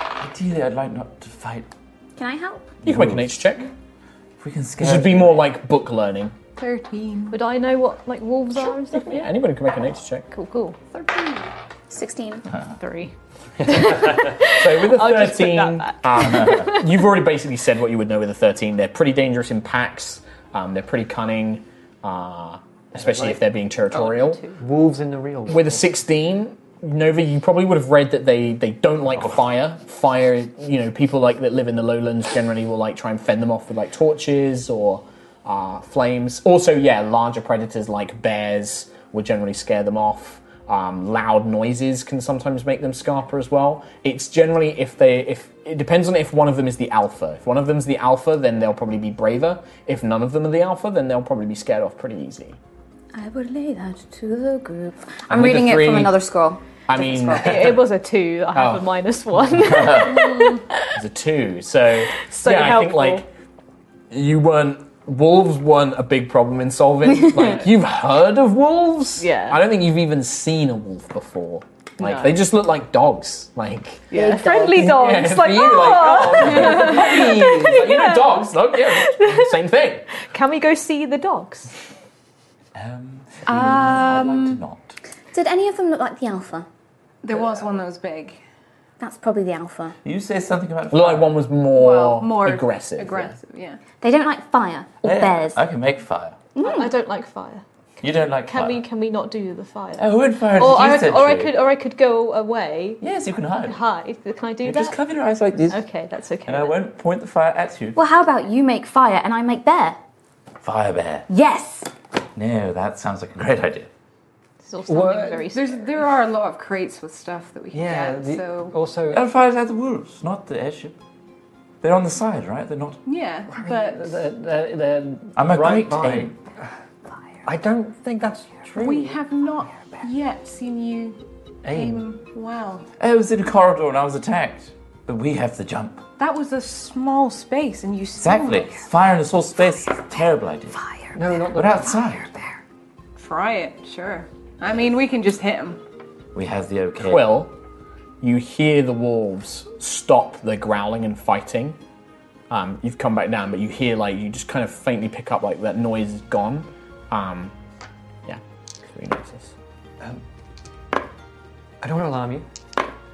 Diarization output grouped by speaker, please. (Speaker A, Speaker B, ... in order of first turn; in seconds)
Speaker A: 0.2-1.7, 2.9-3.3, 4.4-5.5, 59.6-60.2, 82.8-85.0, 90.0-91.3, 95.0-96.4, 98.0-98.8, 100.0-101.5, 103.0-103.8, 104.6-105.8, 106.5-108.0, 110.6-111.3, 112.3-113.9, 119.1-121.0, 121.8-123.0, 125.4-126.4, 133.0-136.0, 138.2-140.8, 141.5-142.3, 146.3-147.3
Speaker B: 2.2-2.8, 11.9-12.5, 53.1-57.7, 74.1-74.8, 85.3-86.7, 89.0-90.0, 94.0-95.6, 96.6-96.9, 108.0-110.0, 111.3-111.9
Speaker C: 2.8-3.7, 4.8-6.3, 8.9-10.3, 14.5-24.4, 25.5-52.6, 55.3-56.2, 56.9-57.8, 58.5-58.9, 61.0-63.3, 64.1-80.1, 90.9-93.4, 147.1-147.6, 148.2-151.8, 152.5-157.5, 158.3-159.5
Speaker D: 6.6-7.4, 10.9-11.5, 60.0-60.6, 83.5-84.5, 87.2-88.4, 91.7-93.8, 115.4-118.8, 123.0-124.1, 128.8-132.9, 136.2-138.8, 143.2-145.8
Speaker E: 7.3-9.3, 10.3-10.8, 12.7-16.9, 57.3-60.9, 62.2-63.2, 69.2-69.6, 72.0-72.3, 74.1-79.5, 80.1-81.7, 96.6-97.6, 98.5-103.0, 103.6-105.0, 105.7-106.8, 114.6-115.9
Speaker F: 13.7-14.3, 22.9-25.9, 114.9-115.5, 117.7-119.2, 123.5-126.3, 127.5-129.2, 131.7-132.1, 141.1-142.0, 161.8-162.5